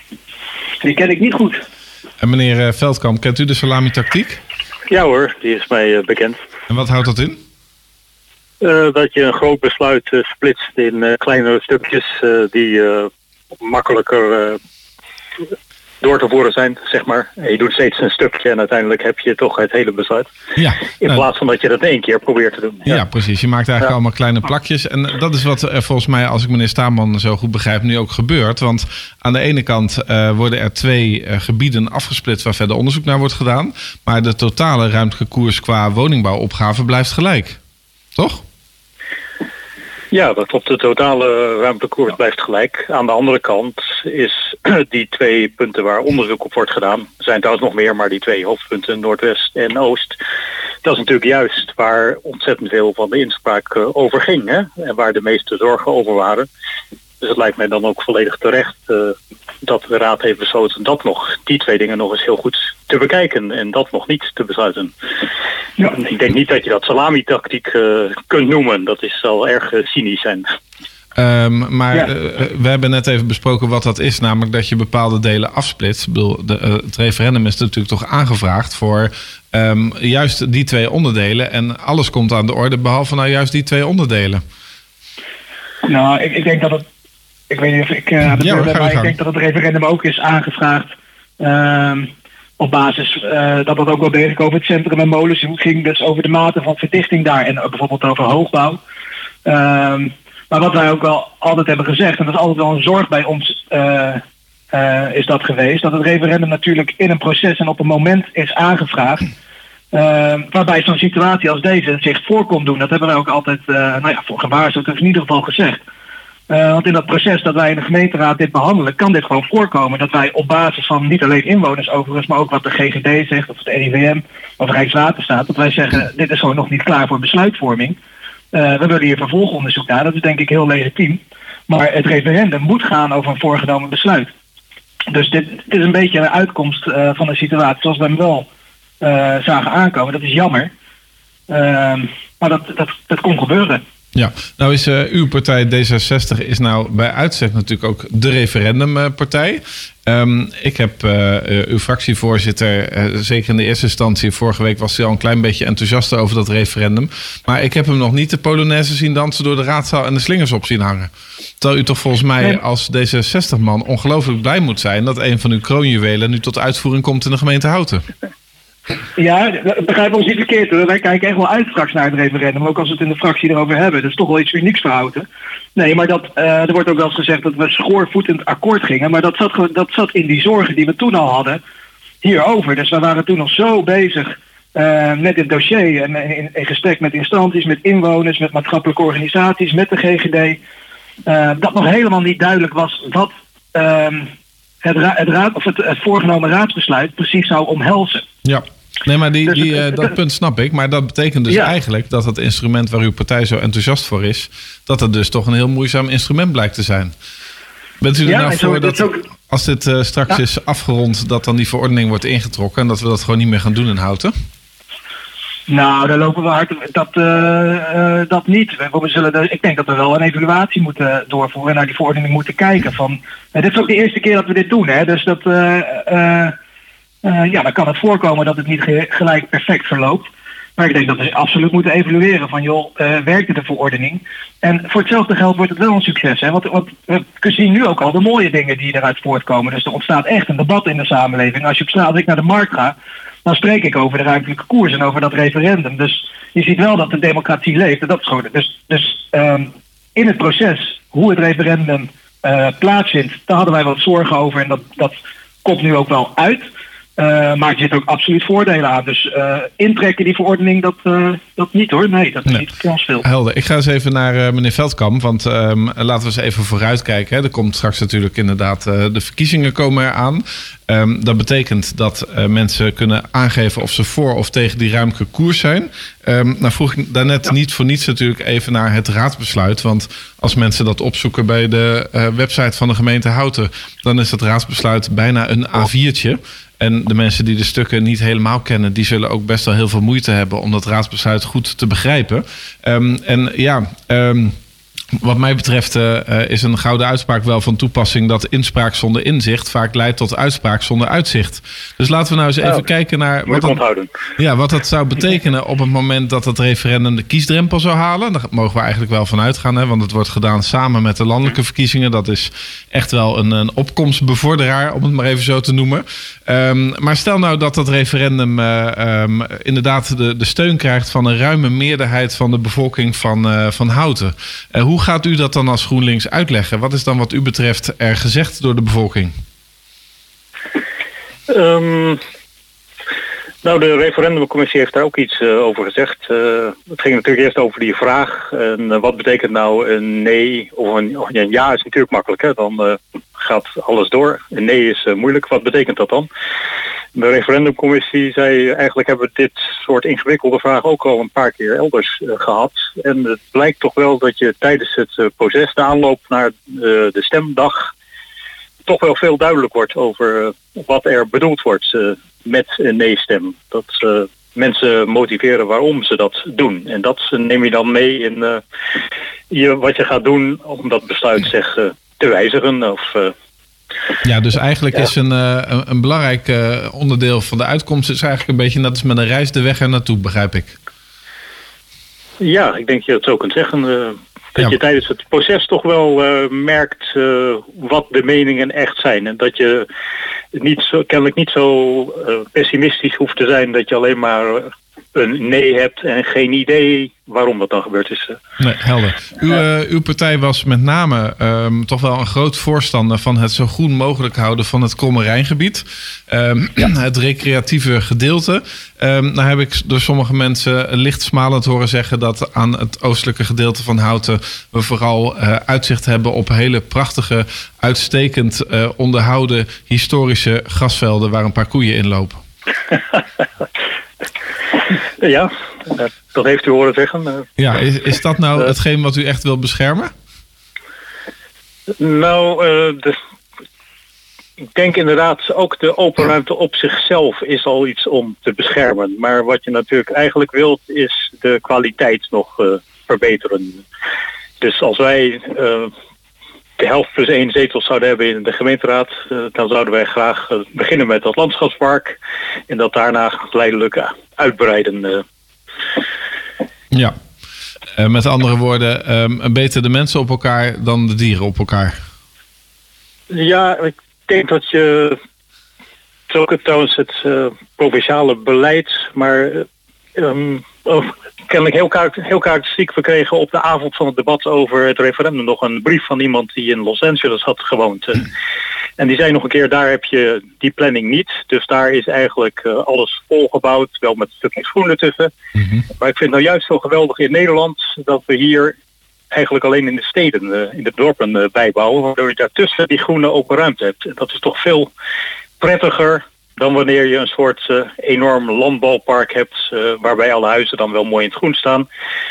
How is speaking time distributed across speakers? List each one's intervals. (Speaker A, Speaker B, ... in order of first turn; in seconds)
Speaker A: 0.8-1.6, 85.8-86.8, 87.5-98.8, 99.4-109.2, 109.9-115.8, 116.5-128.0, 128.5-134.3, 135.1-138.5, 139.0-140.7, 141.5-143.8, 169.2-175.2, 175.8-181.6, 182.2-190.6, 191.2-194.3, 194.8-198.3, 199.5-200.1, 208.2-209.2, 215.7-226.6, 227.2-230.2, 230.8-256.6, 257.2-263.2
Speaker B: 2.2-4.4, 6.7-7.4, 20.6-21.2, 22.9-37.6, 38.1-38.4, 71.2-84.4, 88.3-89.1, 144.1-161.1, 161.6-168.0, 198.4-207.1, 208.0-214.3, 263.2-294.6, 295.2-303.8, 304.4-329.3, 374.2-380.7, 398.6-422.4, 427.6-430.1, 458.0-462.0, 485.6-485.8
Speaker C: 4.9-6.4, 8.6-14.6, 16.0-20.3, 21.0-23.0, 40.1-50.2, 50.8-56.5, 57.2-64.9, 65.9-70.5, 302.6-302.9, 303.5-304.1, 331.5-332.2, 333.6-346.3, 347.1-357.9, 358.9-368.6, 369.5-373.3, 382.4-389.9, 390.5-398.4, 425.2-427.5, 432.0-433.2, 434.7-443.8, 444.6-445.9, 446.8-452.2, 452.7-455.2, 463.3-465.2, 466.3-478.3, 479.0-485.3, 486.0-488.8, 489.3-494.9, 495.6-501.9